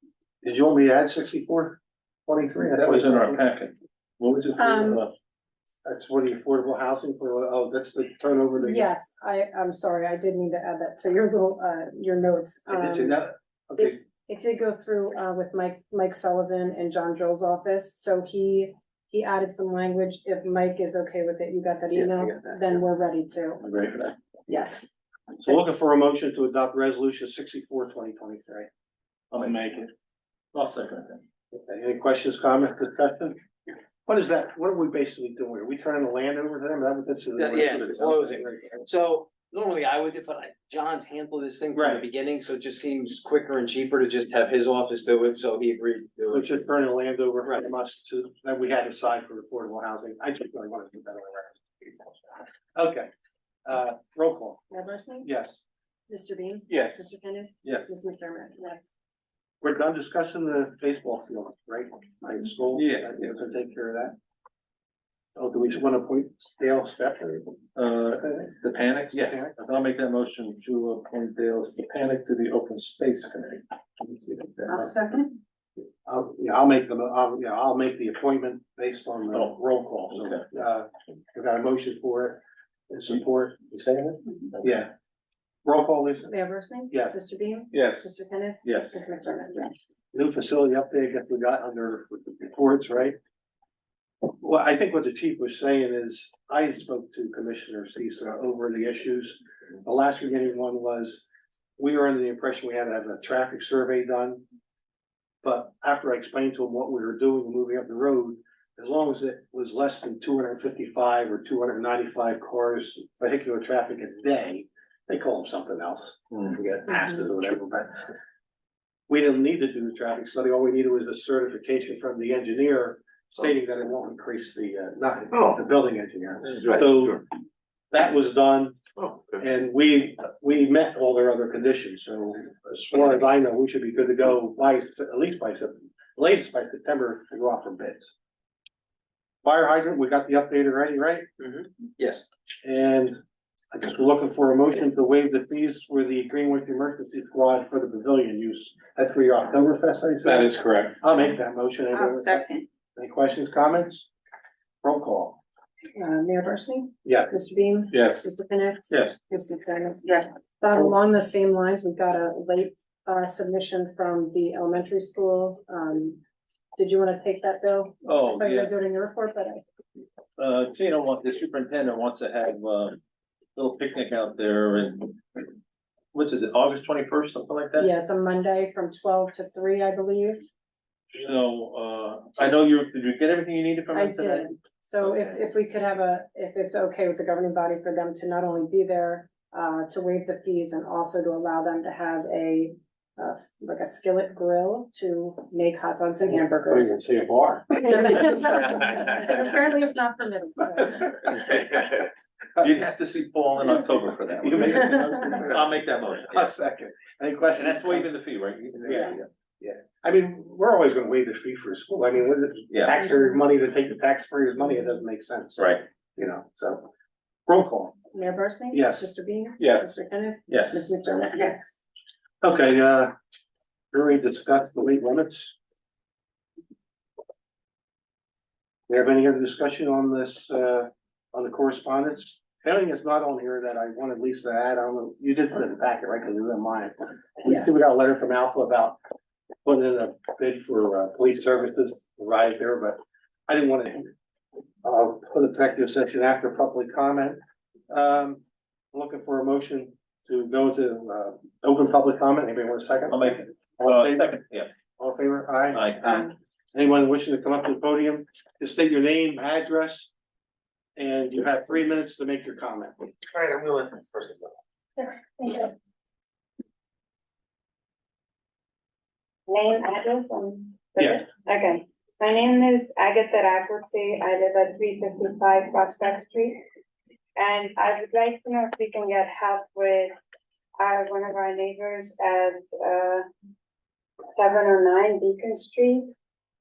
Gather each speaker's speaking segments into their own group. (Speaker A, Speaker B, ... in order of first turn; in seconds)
Speaker A: 0.4-3.4, 5.9-8.9, 12.7-14.0, 25.4-28.7, 31.5-33.4, 34.0-38.8, 41.7-42.1, 46.3-52.1, 52.7-53.1, 53.7-54.7, 55.2-55.6, 59.6-64.1, 65.4-67.6, 68.2-68.5, 69.1-69.5, 76.0-84.9, 85.6-86.3, 90.1-93.2, 94.4-101.2, 101.8-104.4, 105.4-117.9, 119.1-127.2, 127.9-128.8, 129.3-138.1, 139.4-141.3, 142.6-143.2, 143.7-154.1, 154.8-155.4, 157.1-157.3, 196.3-197.8, 204.4-205.6, 206.3-208.1, 208.8-216.9, 217.5-218.0, 218.7-219.1, 222.4-223.1, 223.9-225.6, 228.9-239.0, 239.7-244.1, 244.8-247.4, 247.9-248.4, 248.9-254.3, 255.0-260.1, 261.0-263.0
Speaker B: 2.7-5.1, 23.7-24.1, 29.3-29.9, 30.5-31.2, 56.7-57.0, 57.6-57.9, 62.7-63.3, 67.8-74.9, 79.3-79.6, 80.1-80.4, 87.7-88.1, 88.6-89.0, 150.2-150.9, 158.9-159.2, 168.1-168.7, 170.4-173.0, 173.6-175.5, 176.1-177.9, 181.1-185.4, 202.6-206.5, 207.6-209.3, 215.6-215.8, 219.6-219.9, 220.5-220.9, 253.1-254.7, 255.7-256.3
Speaker C: 4.6-5.0, 8.6-13.3, 13.8-23.7, 24.5-24.9, 25.4-25.7, 54.7-55.3, 56.1-58.9, 74.7-75.3, 86.2-89.9, 156.0-166.2, 166.8-169.6, 177.8-180.4, 183.9-196.9, 197.7-201.3, 218.1-221.8
Speaker D: 22.0-22.4, 37.4-46.5, 142.0-142.2
Speaker E: 151.9-152.6, 265.4-265.7, 269.5-276.6, 277.4-280.1, 280.8-283.2, 284.3-286.1